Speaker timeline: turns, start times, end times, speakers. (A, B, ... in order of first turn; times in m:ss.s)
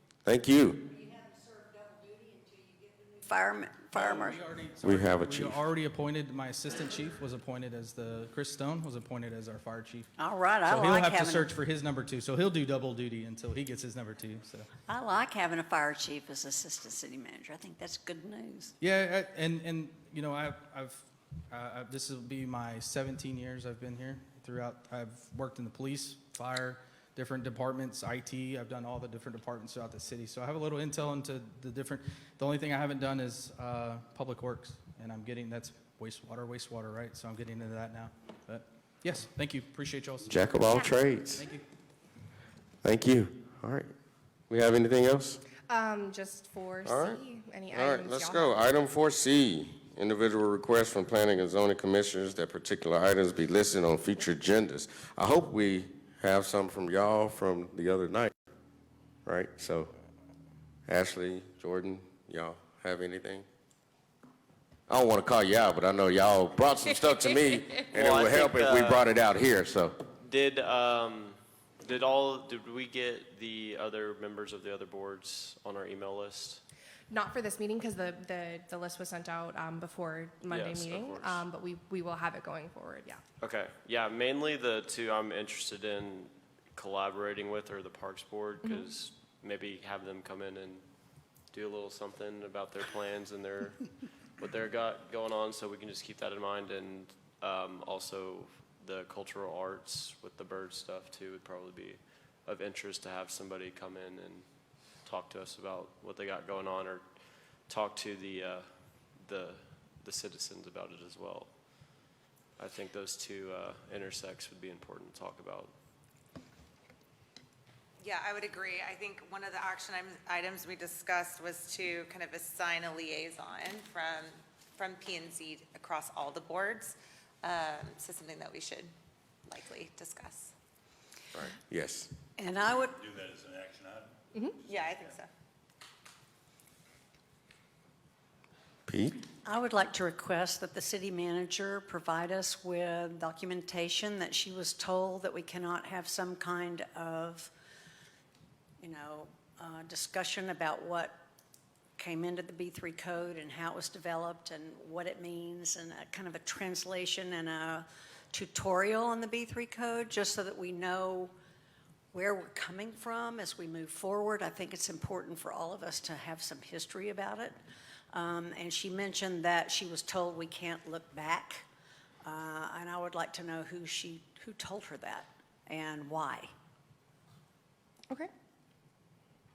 0:00.2-0:00.9 A
0:03.1-0:04.4 B
0:03.9-0:10.1 C
0:04.8-0:05.6 A
0:10.2-0:11.5 B
0:10.6-0:14.7 C
0:14.9-0:18.7 B
0:18.8-0:40.5 C
0:40.3-0:41.4 A
0:41.4-0:41.6 C
0:42.8-0:43.9 A
0:44.5-0:45.4 A
0:45.7-0:48.6 D
0:46.8-0:58.3 A
0:59.2-0:59.9 A
1:00.9-1:03.4 A
1:04.9-1:10.0 A
1:07.9-1:09.0 E
1:10.2-1:16.6 E
1:17.1-1:23.2 D
1:20.5-1:21.4 E
1:23.4-1:30.8 E
1:28.6-1:28.9 D
1:31.5-1:33.8 E
1:34.4-1:44.4 E
1:45.0-1:47.0 E
1:47.7-1:48.6 E
1:49.2-1:51.5 E
1:52.6-1:55.7 E
1:58.0-2:08.9 F
2:09.5-2:10.5 F
2:11.3-2:12.1 A
2:12.4-2:13.0 B
2:12.8-2:15.2 G
2:14.6-2:15.3 F
2:18.9-2:19.2 A
2:19.4-2:27.5 B
2:28.8-2:31.2 B
2:32.0-2:41.3 B
2:42.1-2:47.6 B
2:48.1-2:51.6 B
2:52.2-2:56.5 B